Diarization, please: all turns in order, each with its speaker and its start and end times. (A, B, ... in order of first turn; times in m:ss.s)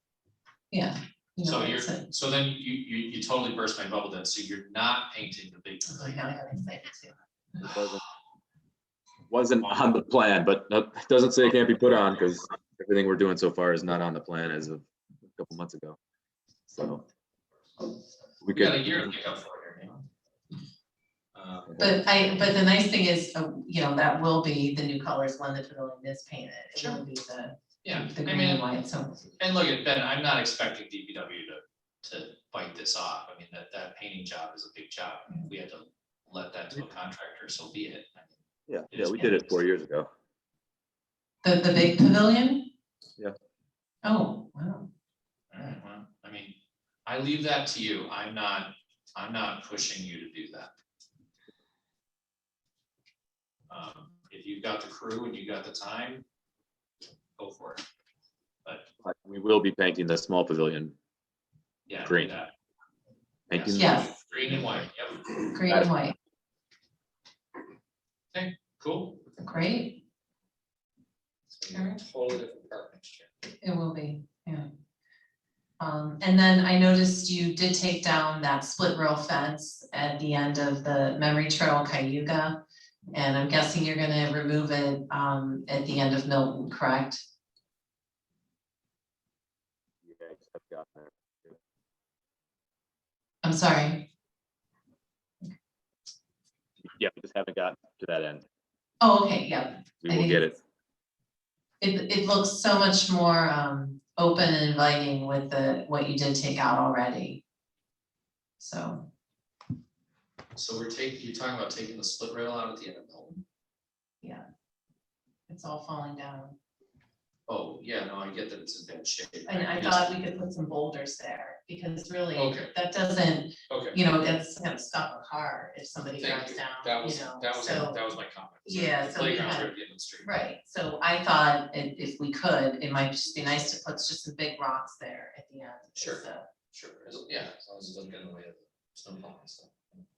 0:00.7-0:02.1 A
0:01.4-0:06.3 B
0:05.9-0:07.6 A
0:07.7-0:08.0 C
0:09.3-0:16.0 C
0:16.7-0:17.0 C
0:18.4-0:19.0 C
0:18.5-0:20.0 B
0:21.3-0:21.9 B
0:21.8-0:29.2 A
0:26.8-0:27.0 B
0:27.8-0:28.6 B
0:29.4-0:38.3 B
0:38.7-0:40.1 C
0:38.9-0:39.5 B
0:41.4-0:42.7 A
0:44.0-0:44.9 A
0:45.5-0:50.7 B
0:53.7-0:56.2 B
0:57.4-0:57.8 B
0:59.0-1:00.9 C
1:01.9-1:02.5 B
1:02.0-1:02.3 C
1:03.5-1:04.0 C
1:03.5-1:05.4 B
1:03.8-1:04.1 A
1:05.5-1:06.2 A
1:08.3-1:09.3 B
1:09.4-1:10.0 A
1:11.5-1:13.3 B
1:11.7-1:12.0 A
1:13.6-1:14.7 A
1:15.8-1:22.6 A
1:23.1-1:27.2 A
1:30.0-1:31.6 C
1:33.4-1:34.1 A
1:36.9-1:38.4 C
1:39.0-1:40.4 A
1:40.0-1:40.6 C
1:41.8-1:47.4 A
1:48.6-1:49.1 A
1:50.5-1:53.4 B
1:55.5-1:56.5 A
1:57.5-2:00.2 B
1:59.5-2:08.0 A
2:02.4-2:02.7 B
2:03.7-2:04.0 B
2:06.2-2:10.3 B
2:08.6-2:16.4 A
2:16.0-2:20.0 B